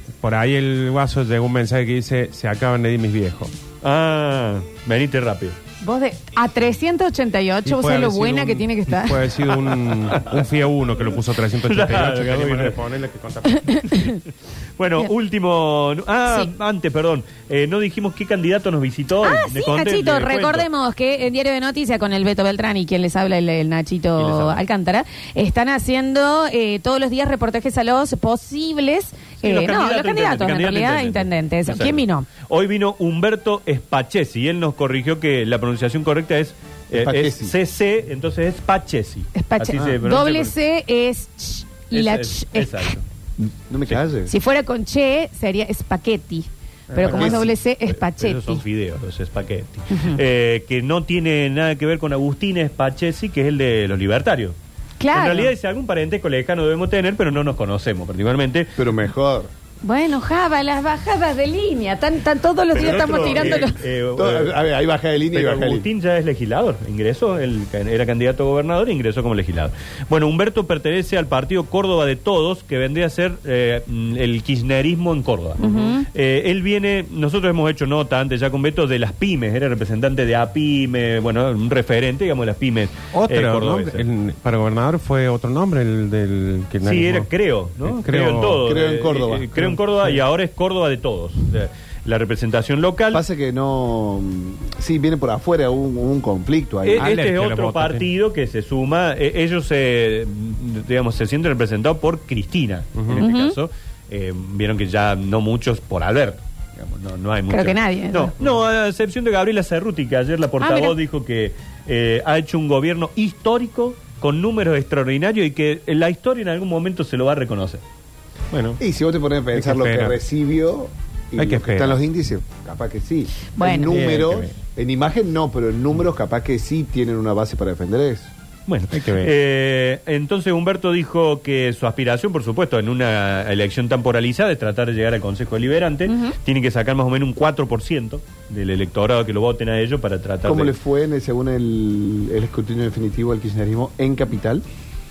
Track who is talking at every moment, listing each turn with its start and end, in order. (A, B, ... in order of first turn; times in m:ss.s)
0:00.2-0:03.5 A
0:03.8-0:05.6 B
0:05.8-0:09.4 C
0:07.6-0:13.9 A
0:09.5-0:10.4 B
0:11.5-0:12.8 B
0:13.5-0:14.2 C
0:14.8-0:20.7 B
0:19.2-0:32.3 C
0:24.2-0:24.6 B
0:29.4-0:40.5 B
0:36.9-0:37.5 D
0:39.3-0:42.9 C
0:41.9-0:43.0 B
0:43.4-0:44.3 D
0:44.3-0:48.6 C
0:46.9-0:54.6 B
0:46.9-0:47.5 D
0:49.9-0:50.2 C
0:55.0-0:55.5 C
0:55.1-0:58.8 B
0:58.8-0:59.5 D
0:59.8-1:03.8 C
1:02.7-1:04.6 B
1:02.8-1:05.9 D
1:05.3-1:24.0 B
1:15.6-1:16.1 C
1:23.1-1:27.3 A
1:26.8-1:33.2 B
1:27.8-1:28.6 A
1:28.6-1:29.8 D
1:33.1-1:37.1 D
1:36.8-1:57.8 B
1:37.0-1:38.1 A
1:43.0-1:43.2 A
1:43.2-1:43.6 C
1:47.5-1:48.3 C
1:50.6-1:51.0 C
1:58.5-1:58.8 A
1:58.8-2:08.3 D
1:59.5-2:00.2 A
2:01.4-2:02.0 A
2:03.6-2:04.1 C
2:03.9-2:04.3 B
2:03.9-2:04.5 A
2:08.7-2:20.8 B
2:08.9-2:09.3 A
2:16.1-2:16.4 C
2:20.4-2:24.6 D